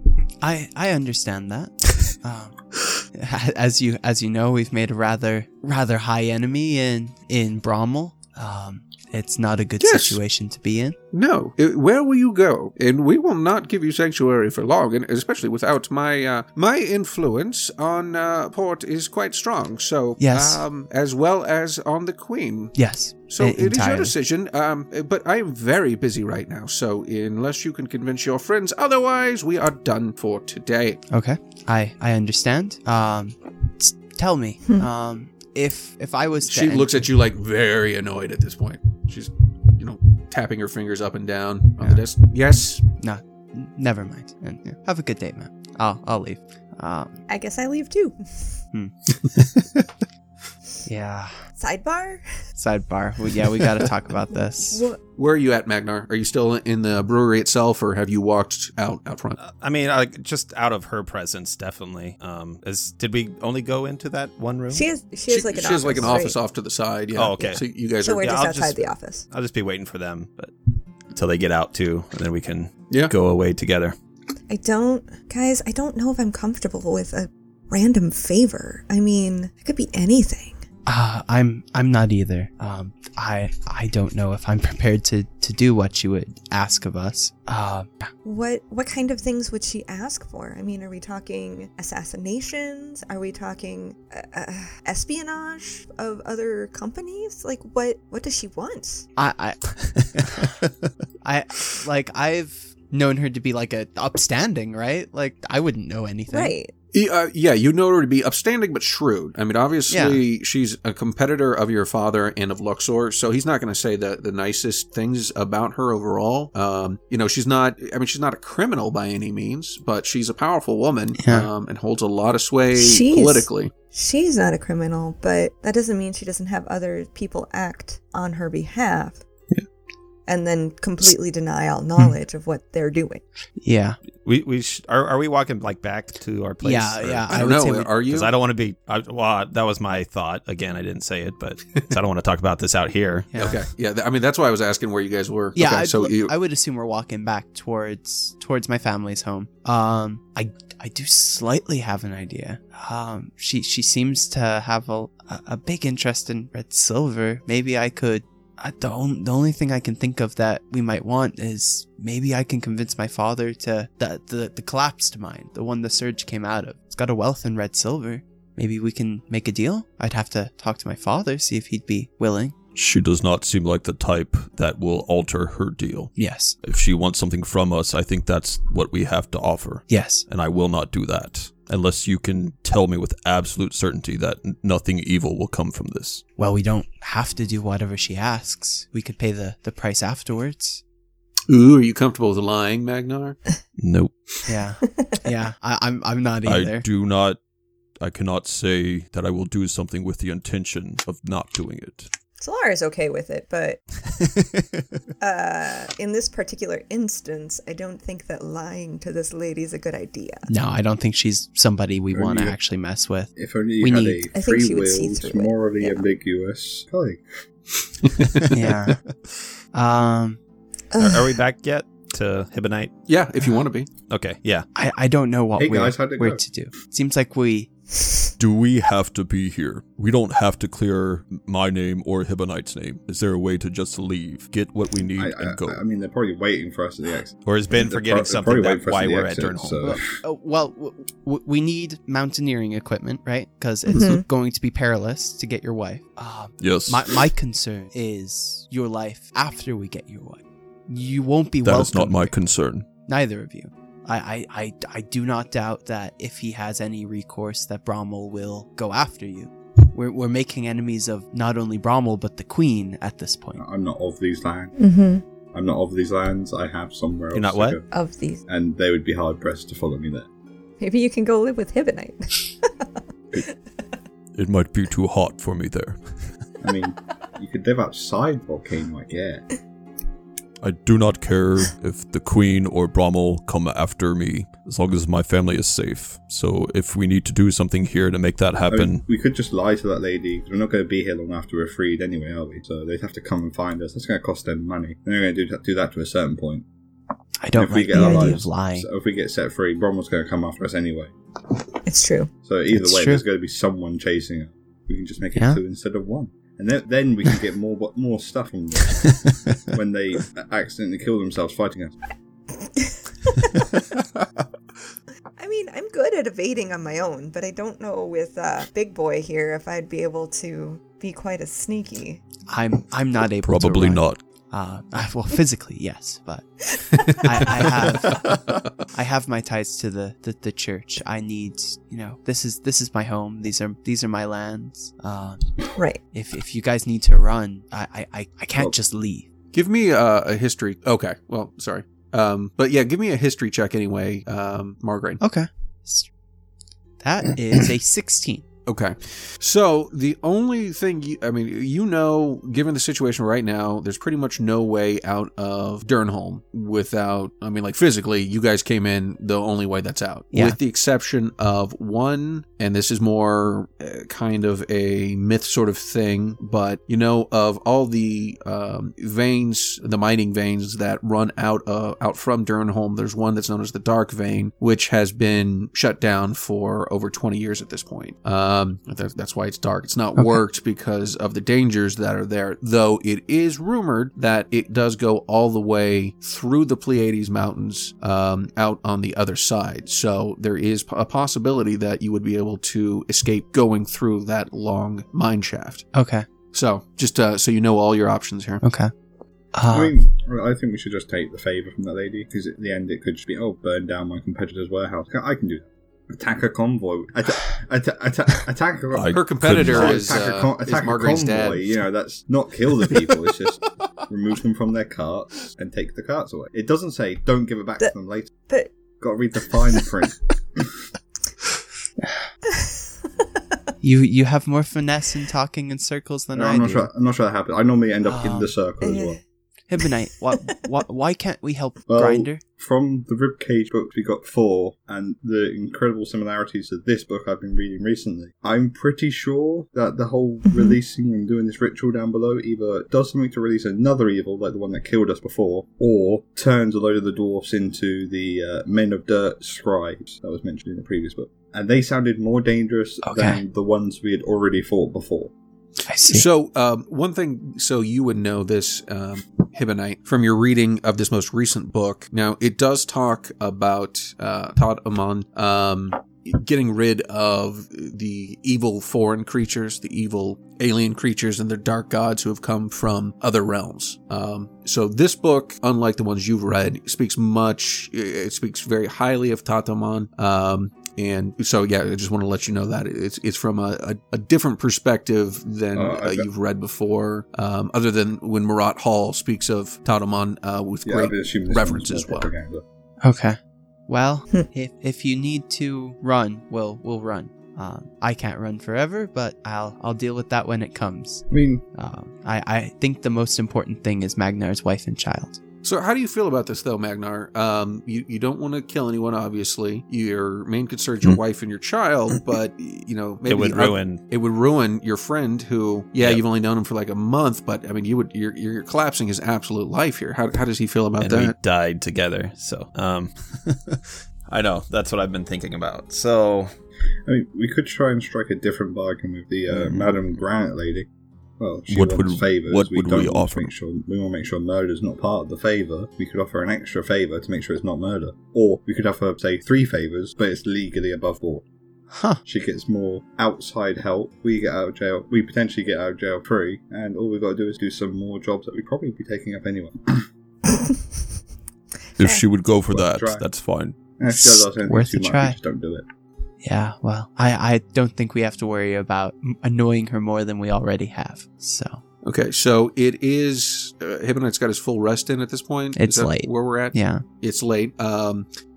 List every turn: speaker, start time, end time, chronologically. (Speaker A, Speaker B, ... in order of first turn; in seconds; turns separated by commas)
Speaker A: 0.4-11.0, Speaker B: 9.8-10.2, Speaker B: 11.1-22.8, Speaker A: 20.2-20.6, Speaker A: 22.8-24.1, Speaker B: 23.3-31.0, Speaker A: 31.1-37.1, Speaker B: 36.4-42.9, Speaker A: 43.0-47.2, Speaker C: 47.3-48.6, Speaker A: 50.9-51.3, Speaker C: 51.6-52.3, Speaker A: 52.6-54.9, Speaker C: 54.6-55.0, Speaker B: 55.2-59.4, Speaker D: 59.4-64.9, Speaker C: 64.7-66.4, Speaker B: 65.3-68.7, Speaker D: 67.2-67.6, Speaker C: 67.4-69.3, Speaker D: 68.2-68.7, Speaker D: 69.3-70.5, Speaker D: 71.1-74.0, Speaker C: 74.5-80.6, Speaker A: 80.9-88.1, Speaker C: 88.2-99.1, Speaker A: 99.2-100.5, Speaker A: 101.2-106.5, Speaker C: 106.3-106.7, Speaker B: 106.9-123.7, Speaker A: 109.9-110.2, Speaker A: 121.2-121.5, Speaker C: 122.8-129.2, Speaker C: 130.3-133.2, Speaker A: 133.6-134.0, Speaker D: 134.2-137.5, Speaker A: 136.6-137.9, Speaker B: 137.3-138.3, Speaker D: 138.1-143.3, Speaker A: 143.3-143.6, Speaker B: 143.3-146.3, Speaker A: 145.6-172.6, Speaker E: 172.8-186.2, Speaker A: 176.2-176.6, Speaker A: 179.9-180.3, Speaker A: 186.4-190.8, Speaker B: 191.5-193.4, Speaker E: 193.8-194.1, Speaker A: 194.5-196.9, Speaker C: 195.0-195.2, Speaker E: 196.4-197.4, Speaker E: 198.0-202.1, Speaker C: 202.4-203.8, Speaker C: 205.2-210.5, Speaker A: 210.5-214.3, Speaker F: 212.1-212.6, Speaker F: 213.4-217.2, Speaker C: 214.3-216.1, Speaker B: 218.0-218.5, Speaker A: 218.5-219.0, Speaker A: 219.7-220.4, Speaker C: 220.9-221.3, Speaker D: 221.0-222.9, Speaker B: 223.1-223.9, Speaker D: 224.1-224.7, Speaker A: 224.8-227.7, Speaker F: 225.6-226.4, Speaker E: 228.4-235.8, Speaker F: 235.2-240.2, Speaker D: 237.4-239.8, Speaker A: 239.8-252.3, Speaker C: 243.9-244.2, Speaker E: 246.6-247.2, Speaker E: 251.6-252.9, Speaker A: 253.1-263.6, Speaker F: 263.6-264.8, Speaker C: 264.8-265.2, Speaker F: 265.5-267.9, Speaker D: 267.3-267.8, Speaker C: 267.9-268.4, Speaker F: 268.5-270.3, Speaker C: 270.8-272.8, Speaker E: 274.4-276.3, Speaker F: 276.6-279.5, Speaker E: 280.6-289.0, Speaker F: 288.7-296.6, Speaker A: 297.4-298.9, Speaker F: 297.6-301.1, Speaker C: 297.9-298.4, Speaker C: 301.9-302.3, Speaker F: 302.4-312.0, Speaker A: 302.7-303.2, Speaker A: 305.4-305.6, Speaker A: 309.1-309.6, Speaker C: 312.8-313.7, Speaker C: 315.4-322.2, Speaker A: 322.5-339.3, Speaker E: 323.4-324.2, Speaker B: 339.5-345.2, Speaker A: 345.2-346.1, Speaker A: 347.0-348.4, Speaker B: 348.7-395.9, Speaker A: 360.3-360.6, Speaker A: 395.9-396.3, Speaker B: 396.5-398.6, Speaker A: 398.6-398.9, Speaker A: 399.5-399.9, Speaker F: 399.7-418.3, Speaker E: 408.9-410.1, Speaker B: 409.1-411.8, Speaker F: 419.0-420.7, Speaker A: 423.8-426.9, Speaker F: 426.4-429.2, Speaker A: 428.0-428.6, Speaker C: 428.8-429.2, Speaker A: 429.7-432.4, Speaker F: 431.9-455.3, Speaker C: 440.5-440.8, Speaker A: 453.0-453.4, Speaker A: 455.9-456.3, Speaker B: 456.1-492.3, Speaker F: 485.8-486.3, Speaker F: 490.9-492.6, Speaker A: 493.0-505.4, Speaker F: 501.3-501.6, Speaker B: 505.6-521.4, Speaker D: 513.3-514.0, Speaker D: 521.0-526.5, Speaker F: 527.1-530.9, Speaker D: 529.5-529.9, Speaker F: 531.4-541.5, Speaker E: 531.7-533.5, Speaker A: 541.9-542.2, Speaker F: 542.2-550.1, Speaker E: 552.0-553.8, Speaker F: 552.7-553.3, Speaker F: 554.0-555.8, Speaker A: 554.1-555.4, Speaker A: 556.4-561.8, Speaker B: 562.0-568.3, Speaker A: 565.8-567.0